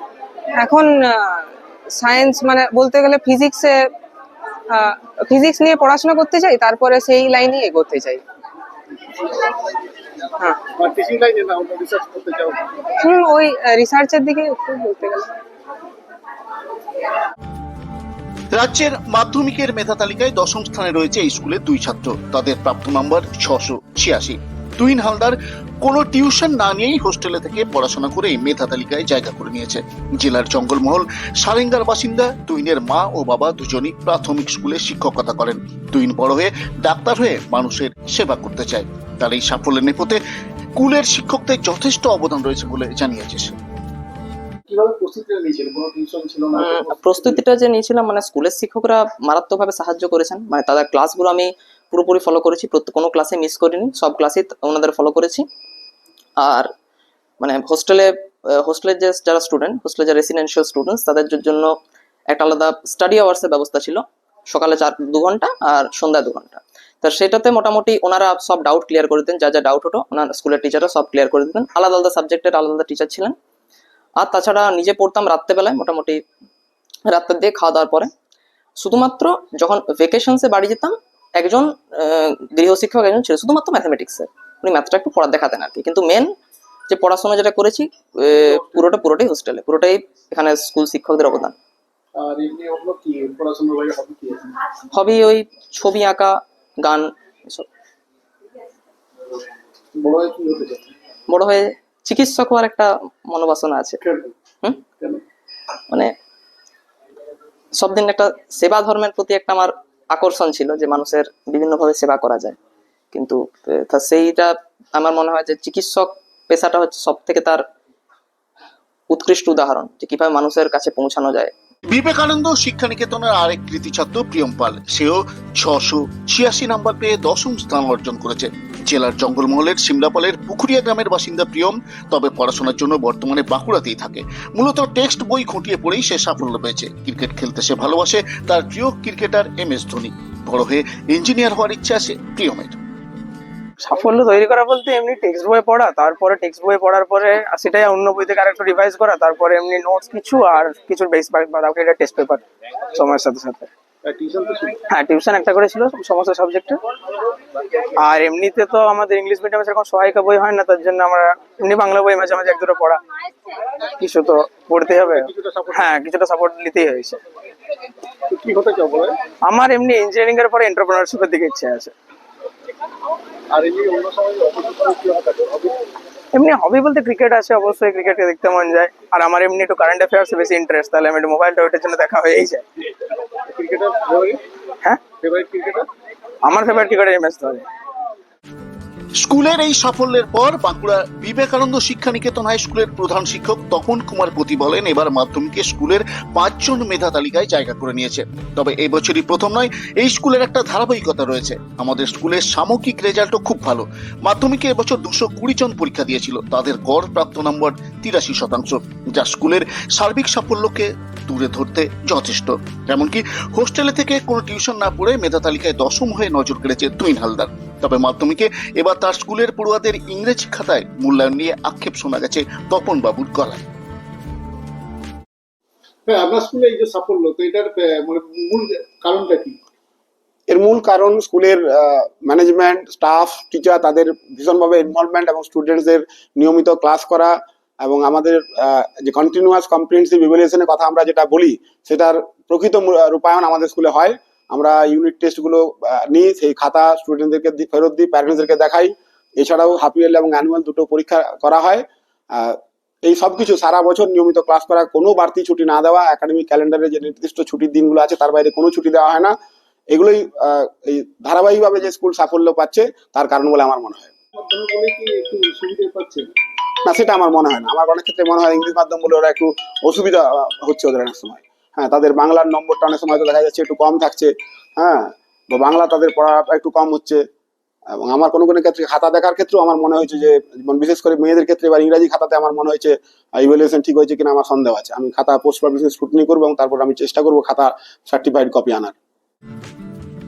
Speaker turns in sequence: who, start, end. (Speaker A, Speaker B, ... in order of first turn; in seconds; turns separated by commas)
Speaker A: 0.6-3.8, Speaker A: 4.7-8.2, Speaker B: 10.8-12.7, Speaker A: 13.0-15.3, Speaker C: 18.5-40.2, Speaker C: 40.8-43.5, Speaker B: 44.7-47.4, Speaker D: 46.6-55.5, Speaker D: 56.4-56.7, Speaker D: 57.4-61.7, Speaker D: 62.3-73.3, Speaker D: 74.2-76.2, Speaker D: 77.1-78.1, Speaker D: 78.8-86.3, Speaker D: 86.9-91.6, Speaker B: 92.2-94.6, Speaker D: 94.9-97.7, Speaker B: 100.0-100.9, Speaker D: 101.3-104.0, Speaker B: 104.0-104.3, Speaker D: 107.8-112.6, Speaker D: 113.1-117.6, Speaker D: 119.1-121.5, Speaker C: 121.9-142.8, Speaker E: 143.8-153.7, Speaker B: 154.0-154.8, Speaker E: 154.9-156.8, Speaker E: 158.0-163.0, Speaker E: 164.0-167.2, Speaker B: 165.0-165.9, Speaker B: 168.3-169.2, Speaker E: 169.4-171.9, Speaker B: 173.5-175.8, Speaker E: 176.3-182.6, Speaker B: 183.5-184.4, Speaker B: 185.1-185.9, Speaker E: 186.4-187.7, Speaker C: 189.2-223.6, Speaker B: 226.1-229.6, Speaker F: 230.5-259.3, Speaker F: 259.9-264.1, Speaker B: 264.4-266.3, Speaker F: 266.9-277.2, Speaker F: 277.9-289.0